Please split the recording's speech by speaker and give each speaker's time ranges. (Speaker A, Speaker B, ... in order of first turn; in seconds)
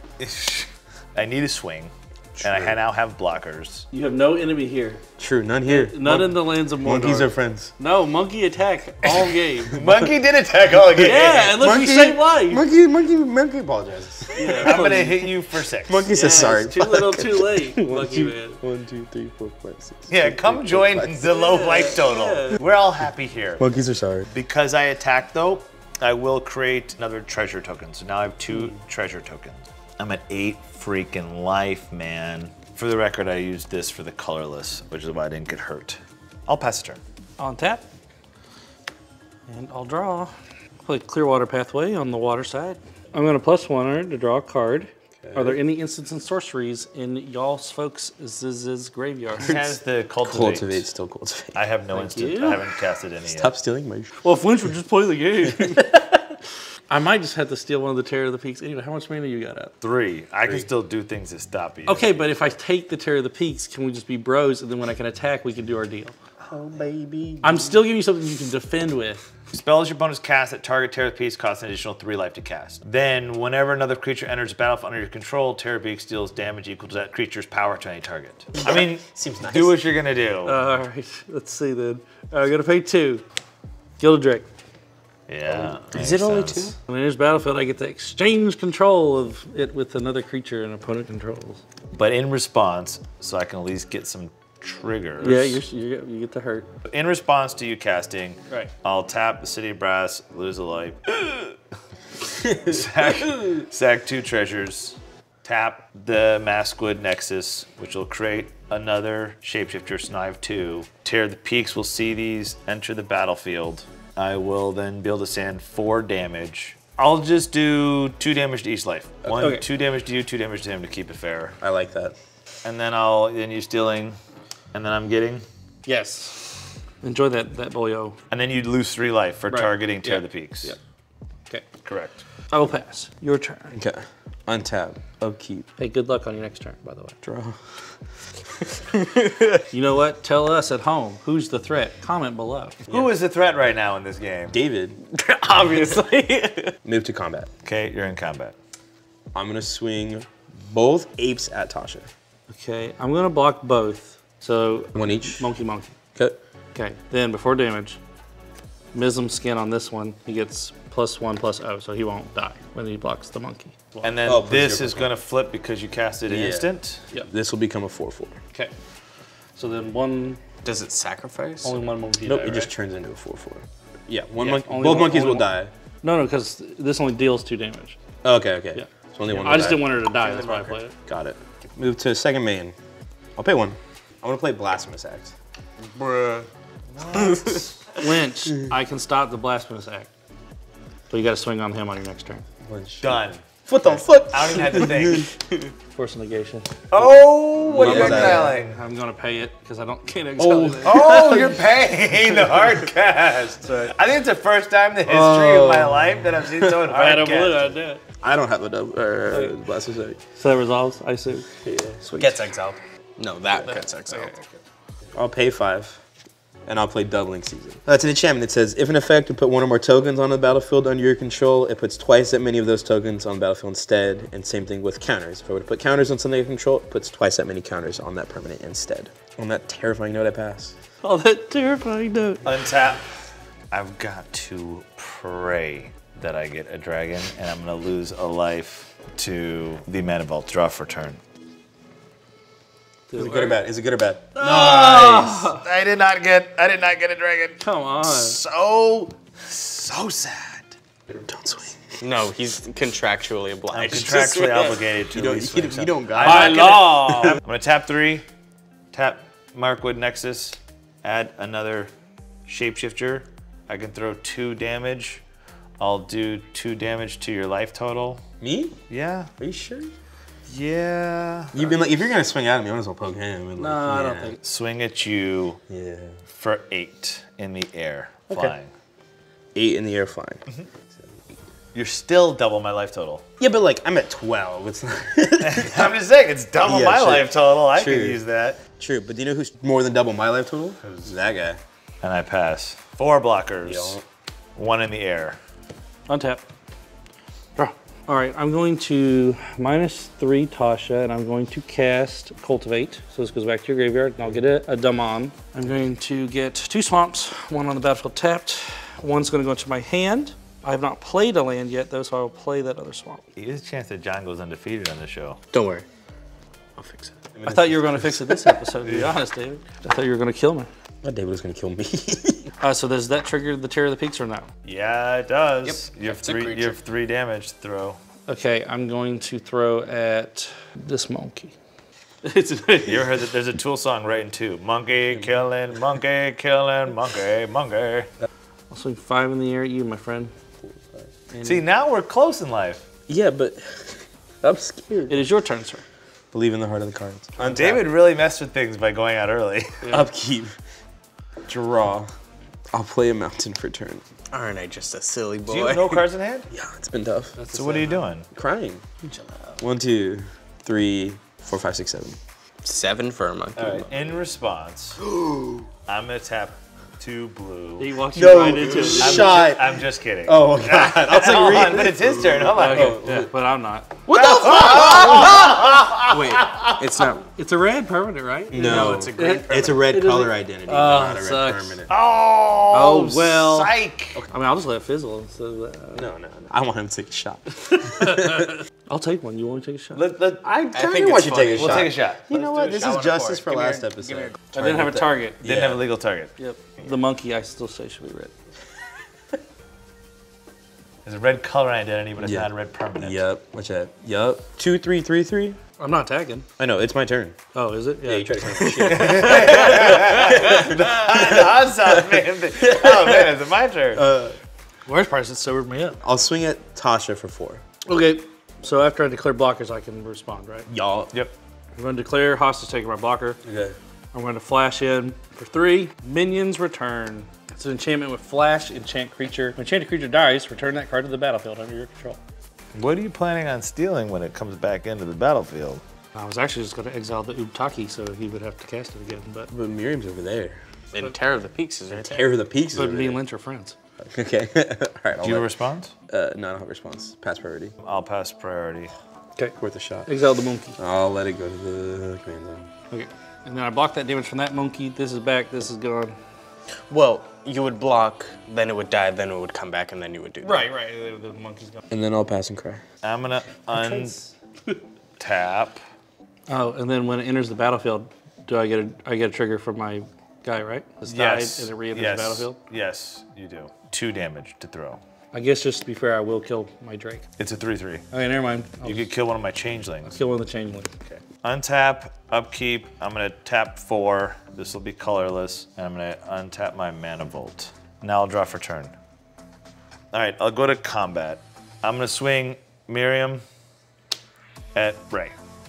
Speaker A: 0.2-3.9, 9.7-11.6, 14.6-16.1, 20.1-23.6, 24.3-37.0, 49.4-50.9, 51.5-53.5, 59.8-62.2, 69.5-80.6, 85.3-86.7, 91.9-95.6, 96.9-101.5, 102.4-121.6, 122.6-124.2, 124.7-125.4, 128.3-130.8, 131.8-132.2, 142.9-144.6, 147.6-148.5, 164.0-167.0, 186.9-187.7, 193.0-195.3, 196.9-198.8, 200.8-207.7, 232.4-233.1, 233.7-241.2, 244.4-250.7, 253.7-258.2, 258.9-261.9, 262.5-265.2, 265.8-268.2, 268.9-269.3, 270.5-271.7, 274.4-275.6, 276.3-278.7, 281.7-283.2, 285.4-288.6, 292.0-294.0, 294.6-295.4, 313.4-315.4, 324.6-328.0, 332.8-338.1, 341.4-342.9, 347.4-349.9, 355.5-356.5, 357.5-358.3, 363.6-365.0, 365.9-373.0, 374.1-376.8, 381.9-384.2, 389.9-390.5, 391.6-393.9, 395.4-396.3, 401.0-403.2, 408.8-414.0, 432.7-435.8, 445.2-445.9, 447.8-448.9, 463.0-464.2, 465.2-465.8, 471.1-475.0, 477.4-478.0, 478.8-480.1, 481.0-488.9, 490.1-493.4, 494.7-495.3
Speaker B: 2.4-2.8, 5.2-7.7, 9.8-10.1, 10.9-15.1, 15.8-21.4, 23.6-24.3, 45.2-45.6, 50.2-51.6, 53.3-54.1, 66.5-67.8, 78.5-79.8, 85.5-86.7, 102.5-102.8, 121.6-122.2, 133.7-135.7, 137.2-137.6, 144.5-145.0, 146.8-147.5, 149.3-152.1, 154.9-155.5, 164.2-165.1, 166.3-166.7, 167.3-168.4, 172.2-175.7, 178.2-180.0, 181.1-182.7, 183.3-185.3, 192.6-195.3, 197.7-198.6, 200.4-201.6, 202.3-202.7, 205.0-206.7, 208.2-210.2, 211.6-212.8, 215.1-216.0, 216.7-230.8, 243.1-245.4, 251.1-251.8, 255.1-257.4, 268.4-268.8, 269.4-269.9, 271.5-274.4, 275.7-276.2, 279.5-281.2, 283.4-286.0, 286.6-288.2, 288.8-291.6, 293.6-294.0, 317.3-318.5, 321.0-322.4, 340.6-341.1, 343.1-345.3, 346.3-347.8, 349.9-350.6, 351.5-352.1, 352.7-354.0, 356.5-357.4, 358.3-358.9, 359.6-362.2, 363.6-363.9, 365.0-365.7, 368.1-373.3, 374.1-375.5, 378.5-381.9, 385.9-388.5, 390.4-395.8, 402.2-405.6, 406.6-407.4, 408.0-413.3, 413.9-414.4, 416.0-417.6, 420.7-421.1, 423.4-423.8, 439.5-440.6, 442.0-443.2, 444.0-445.5, 446.1-447.7, 449.5-450.1, 450.8-452.7, 461.9-462.8
Speaker C: 3.9-5.0, 5.6-9.8, 11.0-12.6, 14.3-15.3, 16.1-18.6, 21.2-22.6, 37.4-37.8, 39.5-40.3, 40.8-49.6, 51.9-52.7, 54.2-56.0, 56.9-59.7, 61.9-66.1, 67.4-69.2, 80.4-83.2, 84.0-84.5, 86.8-91.6, 95.2-96.7, 119.3-119.6, 125.8-128.2, 129.5-130.8, 132.5-133.8, 135.8-137.2, 139.7-142.8, 152.5-155.9, 156.7-158.0, 158.9-164.1, 169.6-170.4, 171.6-172.7, 174.4-175.5, 176.0-178.0, 178.7-180.9, 187.9-190.1, 191.1-192.4, 195.9-196.8, 197.8-201.4, 203.6-203.9, 206.8-208.0, 210.3-211.5, 212.0-212.5, 213.6-214.6, 231.0-232.4, 243.1-243.6, 244.3-245.6, 247.6-248.4, 256.2-257.4, 273.6-274.4, 296.1-296.4, 297.6-313.2, 317.4-320.7, 322.6-324.5, 328.3-331.5, 332.2-333.2, 338.7-340.3, 341.3-341.6, 345.1-345.8, 357.4-358.1, 359.0-359.5, 367.8-369.4, 372.5-374.0, 377.2-381.8, 382.7-383.7, 384.3-386.1, 387.7-390.0, 394.5-395.4, 396.4-398.3, 405.8-406.4, 407.5-409.0, 414.9-416.0, 417.8-420.7, 421.8-423.4, 424.1-432.2, 436.1-439.5, 442.7-443.7, 450.1-450.8, 452.9-456.1, 460.4-461.8, 463.7-464.3, 466.5-472.6, 475.3-477.3, 478.1-479.1, 480.0-480.9
Speaker D: 145.1-146.7, 170.6-171.8, 180.1-180.8, 185.9-186.5, 187.1-187.7, 213.2-214.3, 252.0-254.8, 315.5-315.8, 316.8-317.1, 325.6-326.8, 354.3-356.0, 362.6-363.8, 374.6-375.3, 376.1-377.2, 378.5-379.8, 390.7-391.9, 394.0-394.4, 440.9-442.3, 456.9-460.6